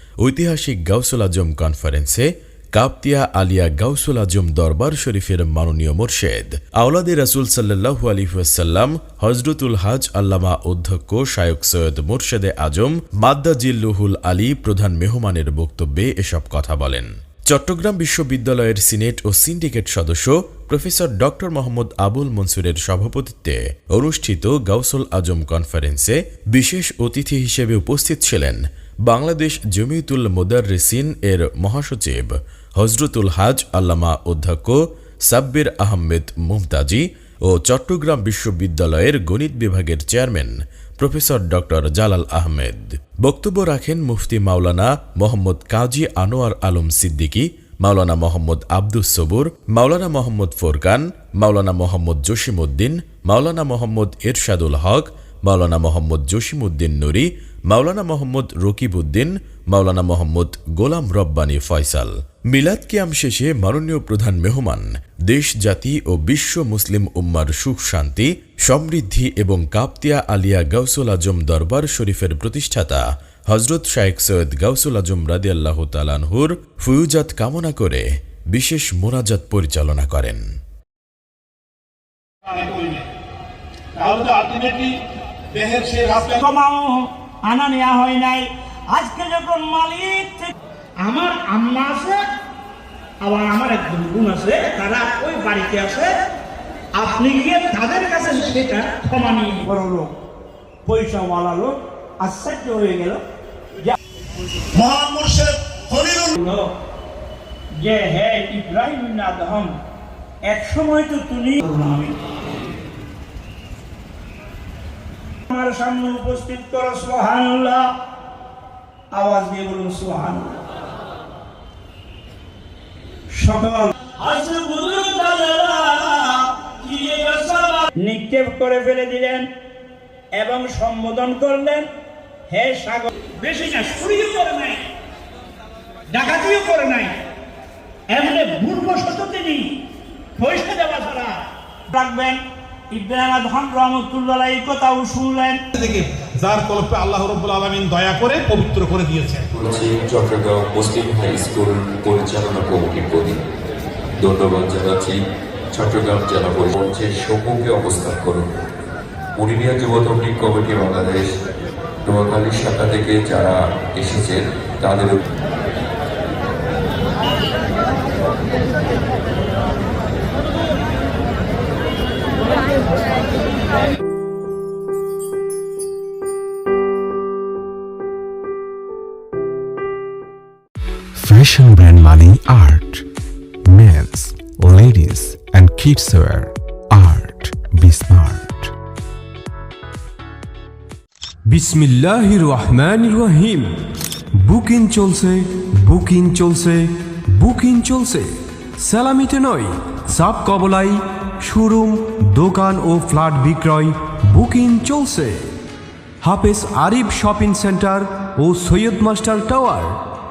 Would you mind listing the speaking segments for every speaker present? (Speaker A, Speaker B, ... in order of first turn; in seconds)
Speaker A: 0.2-80.4
Speaker B: 82.5-83.0, 84.0-84.9, 85.5-86.4, 104.8-106.3, 145.7-149.4
Speaker C: 86.3-92.2, 93.2-96.1, 97.0-100.1, 100.8-103.2, 106.3-106.6, 107.8-109.7, 110.5-112.1, 115.5-117.8, 119.1-120.5, 123.4-129.4, 130.3-131.9, 132.5-134.8, 136.1-137.1, 138.1-139.7, 140.4-141.4, 141.9-145.6
Speaker D: 149.5-153.4, 154.2-155.2, 155.7-158.5, 159.4-161.3, 162.1-165.2
Speaker E: 181.2-183.1, 183.7-188.7
Speaker F: 191.5-193.7, 194.3-205.3, 206.2-210.0